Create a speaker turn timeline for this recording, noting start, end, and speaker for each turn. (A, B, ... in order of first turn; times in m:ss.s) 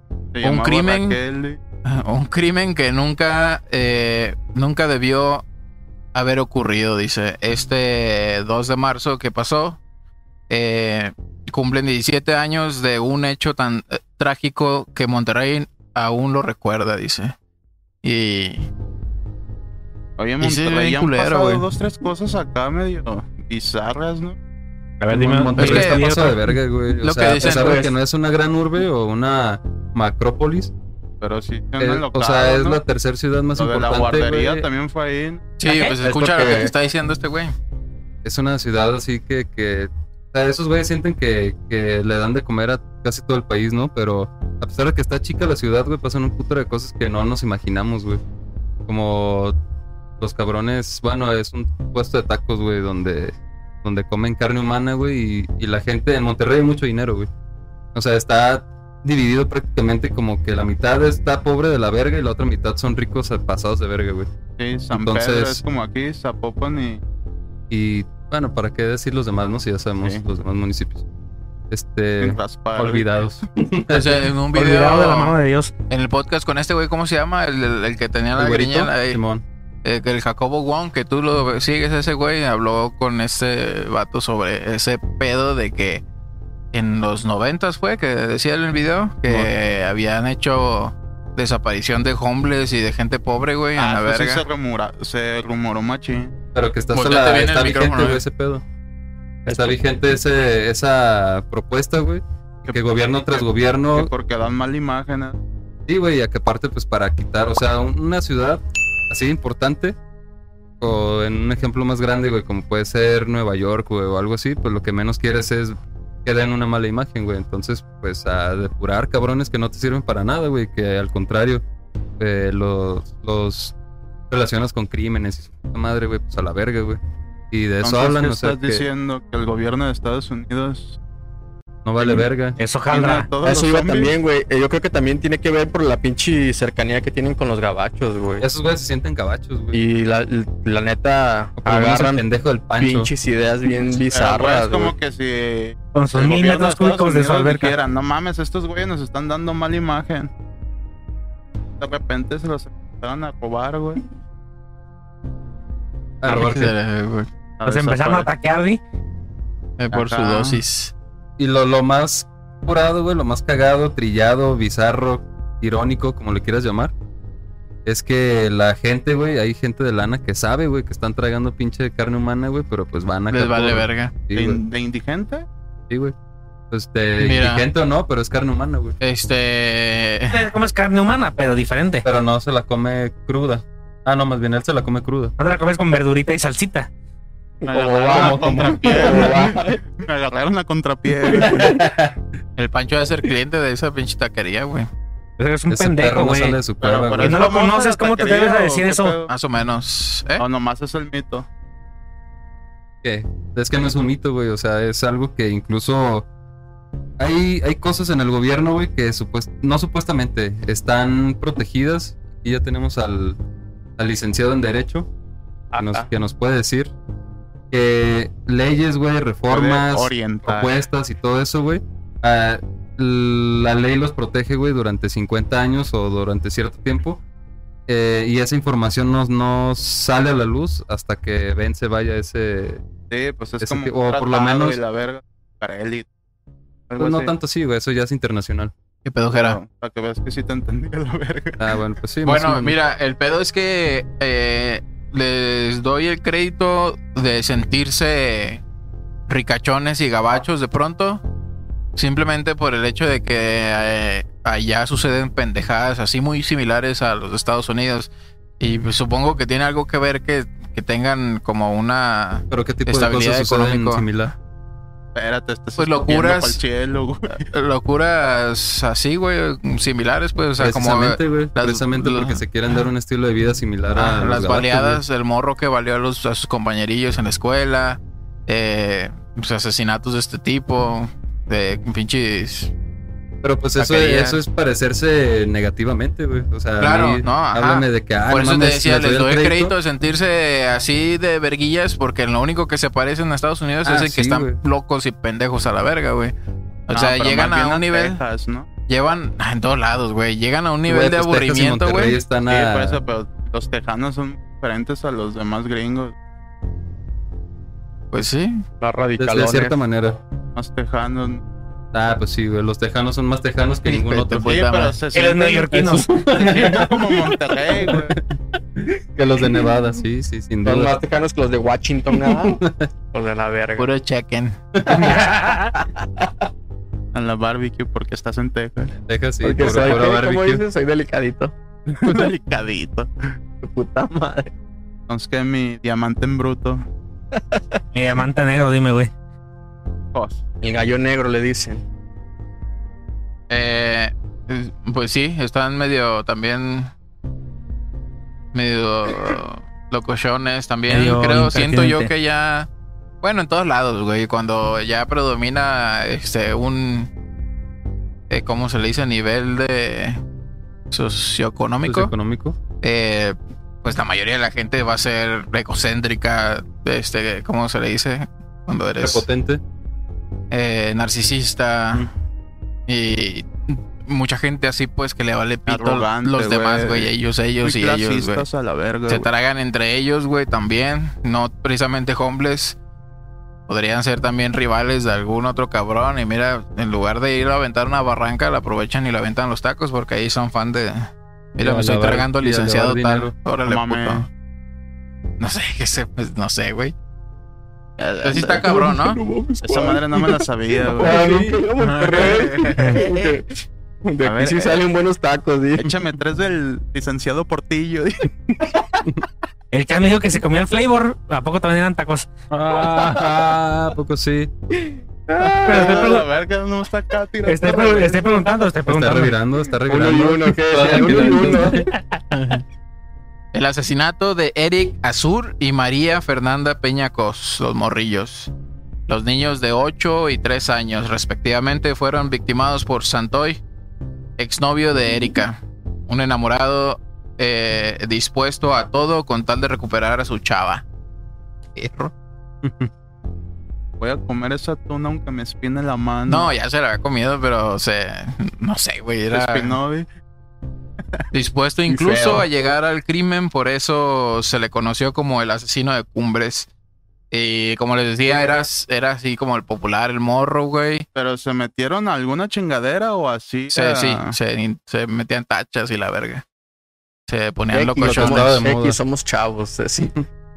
0:00.3-0:01.6 A
0:00.4-0:01.2 B
0:01.8-0:05.4 B
0:06.1-0:09.8 B
0:10.5-0:17.4 B
0:18.0-0:18.7 B
0:20.2-0:24.4 A
0:20.4-0:21.6 B
0:25.0-0:26.5 C
0:25.1-0:30.7 D
0:25.6-0:26.2 B
0:27.0-0:27.8 B
0:27.4-0:27.9 E
0:31.2-0:32.8 A
0:31.8-0:34.7 D
0:33.6-0:35.5 A
0:35.6-0:37.5 B
0:35.7-0:36.7 E
0:38.2-0:48.2 D
0:48.9-0:49.6 D
0:50.2-0:57.3 D
0:57.9-1:04.3 D
1:04.6-1:07.0 A
1:04.9-1:05.6 D
1:07.7-1:11.0 D
1:11.7-1:14.2 D
1:12.2-1:13.2 A
1:13.9-1:15.4 B
1:14.5-1:15.7 C
1:15.9-1:19.2 B
1:18.4-1:19.4 D
1:19.8-1:26.0 B
1:26.7-1:34.4 B
1:33.8-1:36.3 A
1:36.5-1:38.6 D
1:36.9-1:38.2 B
1:39.5-1:44.1 D
1:39.5-1:39.8 E
1:44.0-1:45.4 A
1:45.9-1:50.0 D
1:50.8-2:01.6 D
2:02.2-2:03.8 D
2:04.3-2:07.0 D
2:07.5-2:08.8 D
2:07.8-2:11.0 A
2:11.8-2:12.6 D
2:12.0-2:12.2 A
2:12.6-2:13.3 C
2:12.9-2:14.1 A
2:13.4-2:18.5 E
2:18.4-2:19.8 D
2:19.7-2:22.2 E
2:21.6-2:23.1 D
2:22.8-2:25.0 E
2:24.1-2:30.3 A
2:25.9-2:27.8 C
2:31.8-2:34.0 A
2:36.2-2:36.7 D
2:36.2-2:37.3 B
2:37.6-2:38.3 A
2:37.6-2:38.8 C
2:39.8-2:40.9 B
2:39.9-2:40.6 A
2:41.4-2:46.9 D
2:47.9-2:54.6 D
2:53.3-2:54.1 B
2:54.3-2:55.5 A
2:56.7-2:59.0 D
2:57.2-2:57.6 B
2:59.0-3:00.5 B
3:00.3-3:02.0 C
3:02.0-3:05.4 D
3:05.4-3:06.9 C
3:07.6-3:09.8 E
3:07.7-3:11.8 A
3:08.1-3:09.3 D
3:11.3-3:12.1 D
3:12.6-3:14.9 B
3:15.4-3:19.2 C
3:15.7-3:17.5 D
3:16.8-3:19.3 A
3:19.3-3:20.4 B
3:20.4-3:21.5 A
3:23.0-3:26.3 D
3:27.2-3:33.4 D
3:34.0-3:35.1 D
3:35.7-3:36.1 E
3:35.8-3:36.9 D
3:37.7-3:47.2 D
3:39.5-3:40.7 A
3:47.9-3:52.8 D
3:53.1-3:56.1 A
3:53.6-3:54.8 D
3:56.9-3:57.3 A
3:57.0-3:58.7 D
3:59.0-3:59.6 B
3:59.3-4:01.8 A
4:01.6-4:02.8 D
4:02.2-4:08.6 B
4:09.3-4:11.2 B
4:12.0-4:24.1 B
4:22.5-4:24.3 D
4:25.2-4:27.5 A
4:25.8-4:26.6 B
4:27.5-4:32.4 B
4:30.6-4:35.0 D
4:34.0-4:42.7 B
4:43.4-4:49.7 D
4:43.8-4:44.4 B
4:46.8-4:56.3 B
4:53.8-4:54.6 D
4:56.9-4:58.2 B
4:56.9-4:58.7 A
4:58.9-5:02.2 B
5:00.9-5:03.0 D
5:02.5-5:06.2 A
5:08.1-5:08.6 B
5:08.8-5:09.8 E
5:09.2-5:10.2 D
5:10.6-5:11.4 A
5:11.9-5:14.6 D
5:13.8-5:15.0 B
5:14.4-5:18.2 A
5:15.1-5:16.2 C
5:15.7-5:18.2 D
5:18.8-5:21.0 D
5:20.6-5:23.9 E
5:22.1-5:22.9 D
5:23.8-5:24.9 B
5:24.8-5:25.2 D
5:24.9-5:26.3 E
5:25.2-5:25.7 C
5:27.1-5:28.9 A
5:29.1-5:30.6 D
5:29.4-5:31.5 E
5:31.9-5:33.1 A
5:33.6-5:34.5 E
5:35.1-5:36.8 A
5:37.3-5:37.8 E
5:37.9-5:39.1 C
5:40.1-5:40.4 A
5:40.6-5:41.8 E
5:43.5-5:46.9 B
5:48.5-5:52.7 B
5:50.9-5:52.1 C
5:53.2-5:57.1 B
5:58.3-6:00.2 B
6:00.9-6:02.1 B
6:01.9-6:02.6 D
6:02.8-6:09.2 B
6:09.0-6:09.6 D
6:10.5-6:12.1 B
6:12.9-6:18.4 B
6:15.7-6:17.1 A
6:17.6-6:19.3 A
6:19.1-6:22.8 B
6:23.7-6:34.3 B
6:31.6-6:33.3 D
6:33.7-6:34.3 A
6:35.4-6:36.9 B
6:38.0-6:38.6 A
6:38.2-6:39.2 B
6:38.3-6:45.9 E
6:39.6-6:41.2 A
6:41.0-6:41.6 D
6:41.8-6:43.0 B
6:42.2-6:43.0 A
6:44.2-6:44.8 A
6:45.8-6:48.7 A
6:49.7-6:52.3 C
6:52.5-6:54.5 D
6:54.7-6:56.2 E
6:55.6-6:58.3 A
6:55.7-6:56.2 C
6:57.4-6:59.4 C
6:58.9-7:01.9 D
6:59.9-7:01.9 E
7:02.3-7:02.6 B
7:03.5-7:08.5 B
7:09.1-7:13.6 B
7:14.4-7:20.8 B
7:21.8-7:22.1 B
7:22.6-7:22.9 D
7:24.0-7:26.5 A
7:26.3-7:29.8 B
7:29.3-7:30.1 A
7:31.3-7:36.7 B
7:31.9-7:32.5 E
7:37.3-7:41.1 B
7:41.2-7:44.4 A
7:43.7-7:46.4 B
7:47.3-7:48.6 B
7:47.7-7:50.1 E
7:48.0-7:49.0 D